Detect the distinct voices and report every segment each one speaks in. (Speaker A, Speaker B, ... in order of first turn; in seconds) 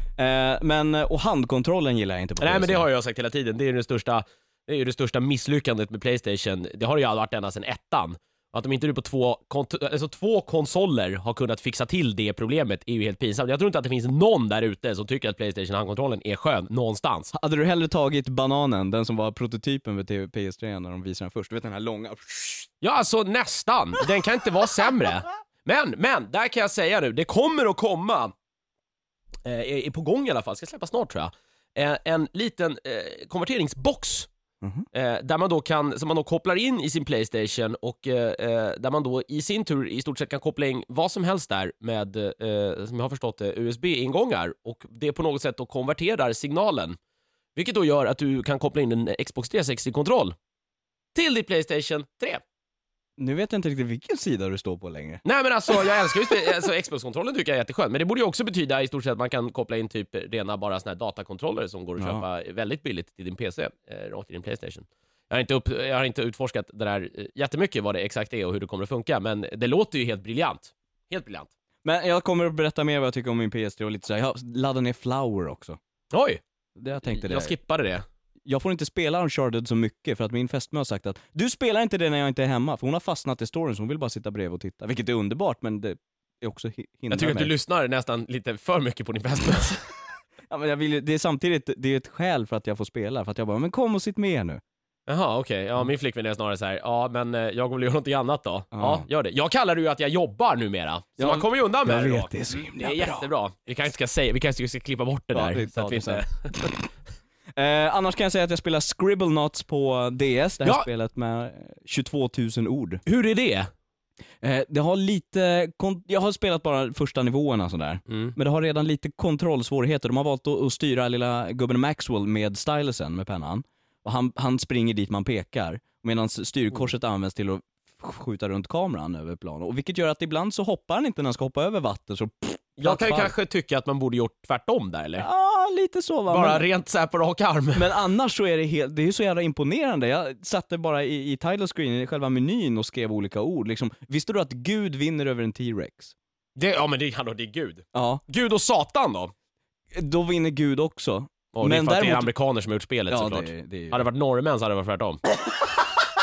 Speaker A: 0.2-2.9, 17.3-22.7, 53.2-55.2, 62.0-62.2, 71.8-75.8, 76.8-77.5, 78.5-87.5, 90.5-94.6, 98.7-99.0, 101.2-103.2, 105.3-106.9, 107.5-113.0, 114.4-133.3, 135.2-136.7, 137.7-146.1, 147.9-148.2, 149.9-152.3, 153.1-154.1
Speaker B: 2.4-17.3, 22.8-28.3, 29.4-34.3, 34.9-47.0, 47.5-50.3, 51.1-52.4, 55.2-71.5, 76.1-76.4, 77.0-78.0, 87.1-89.9, 95.1-106.5, 113.0-113.7, 118.1-118.3, 132.8-135.2, 136.3-137.9, 146.6-149.3, 151.5-155.2